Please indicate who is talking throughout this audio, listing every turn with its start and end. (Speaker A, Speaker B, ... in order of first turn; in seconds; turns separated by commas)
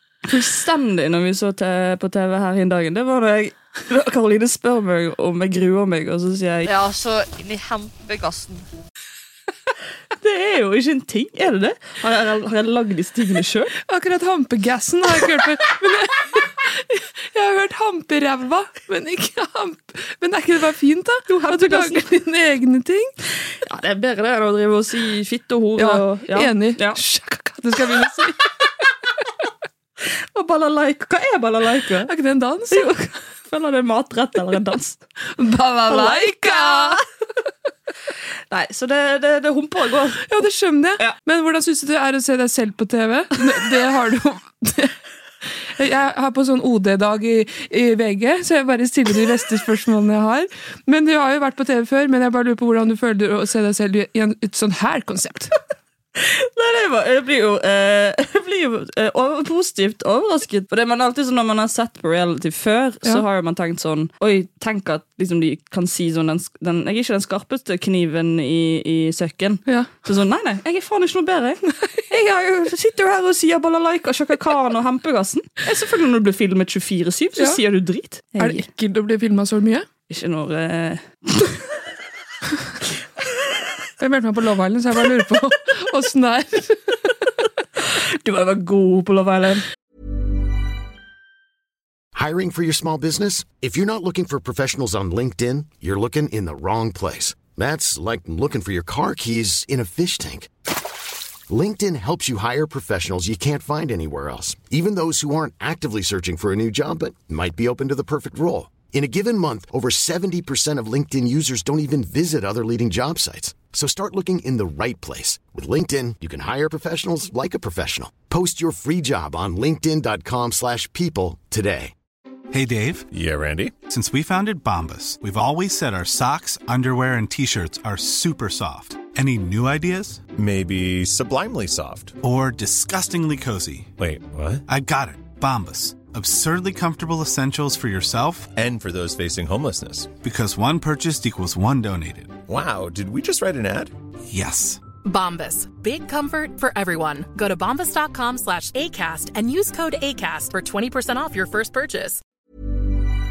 Speaker A: 0.2-6.7, Speaker B: 6.7-8.7, Speaker A: 10.2-13.7, Speaker C: 13.8-23.1, Speaker A: 21.3-22.1, Speaker A: 23.6-27.0, Speaker C: 25.8-28.4, Speaker A: 30.3-32.1, Speaker C: 32.1-32.9, Speaker A: 32.7-35.0, Speaker C: 35.4-37.0, Speaker A: 35.9-37.0, Speaker A: 38.5-40.3, Speaker C: 40.2-44.9, Speaker C: 45.8-55.5, Speaker A: 56.2-78.7, Speaker C: 78.4-79.8, Speaker A: 80.1-81.6, Speaker C: 84.0-86.9, Speaker A: 87.9-89.6, Speaker D: 92.1-100.5, Speaker D: 101.5-121.9, Speaker E: 122.5-123.1, Speaker F: 123.1-123.8, Speaker E: 123.9-130.3, Speaker F: 130.3-132.2, Speaker E: 132.2-133.9, Speaker F: 134.0-134.6, Speaker E: 134.7-138.5, Speaker F: 138.6-140.1, Speaker E: 140.2-142.3, Speaker F: 142.5-143.9, Speaker E: 144.3-144.8, Speaker G: 145.0-152.2